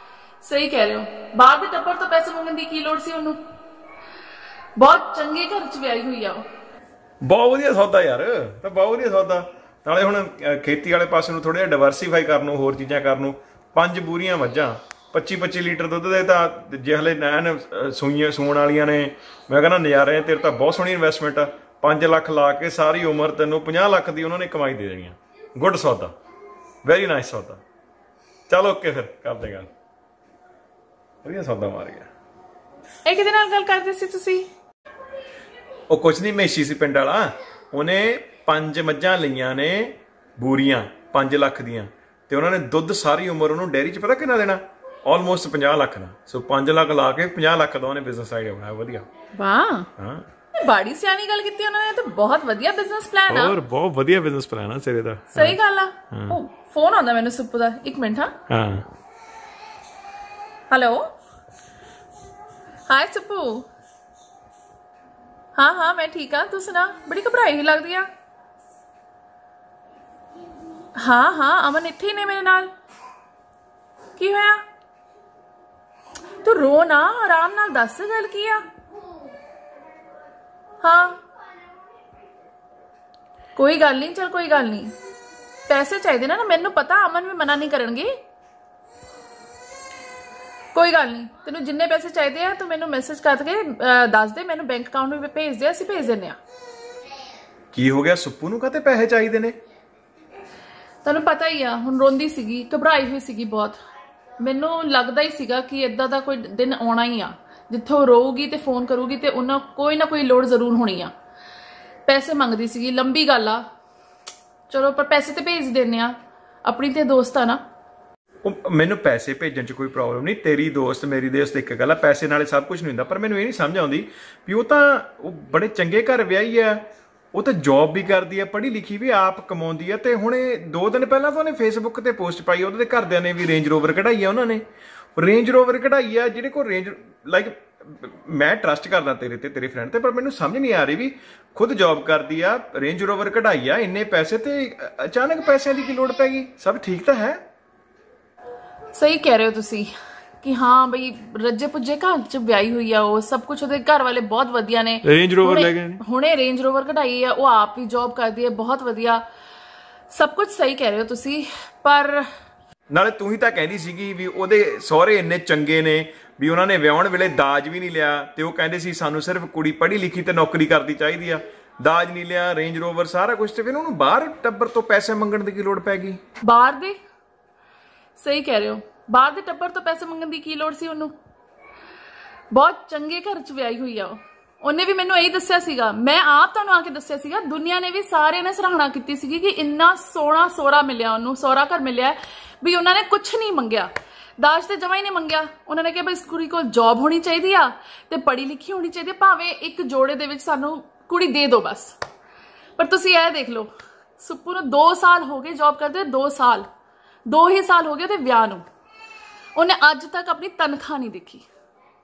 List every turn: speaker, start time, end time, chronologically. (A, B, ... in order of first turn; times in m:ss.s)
0:00.4-0:03.4 A
0:04.8-0:06.4 A
0:07.2-0:26.1 B
0:26.8-0:27.6 B
0:28.5-0:29.7 B
0:31.2-0:32.1 B
0:33.0-0:34.5 A
0:35.9-0:49.1 B
0:49.3-0:49.9 A
0:50.0-0:50.2 B
0:50.6-0:53.6 A
0:53.3-0:55.6 B
0:55.3-0:58.3 A
0:56.1-0:56.4 B
0:58.5-0:58.8 B
1:00.7-1:01.1 A
1:02.9-1:03.6 A
1:05.6-1:08.1 A
1:11.0-1:12.7 A
1:14.2-1:14.6 A
1:16.4-1:18.6 A
1:20.8-1:21.2 A
1:23.5-1:24.9 A
1:25.7-1:28.1 A
1:30.7-1:36.4 A
1:37.7-1:39.6 B
1:41.0-1:43.8 A
1:44.4-1:51.1 A
1:52.1-1:53.6 A
1:54.7-1:57.6 A
1:58.4-2:14.6 B
2:15.2-2:27.4 B
2:28.9-2:39.2 A
2:35.0-2:36.0 B
2:40.1-2:42.3 A
2:42.9-2:56.2 B
2:56.4-2:57.0 A
2:58.2-3:01.1 A
3:02.5-3:21.9 A
3:22.8-3:26.7 A
3:27.3-3:28.6 A
3:29.6-3:31.5 A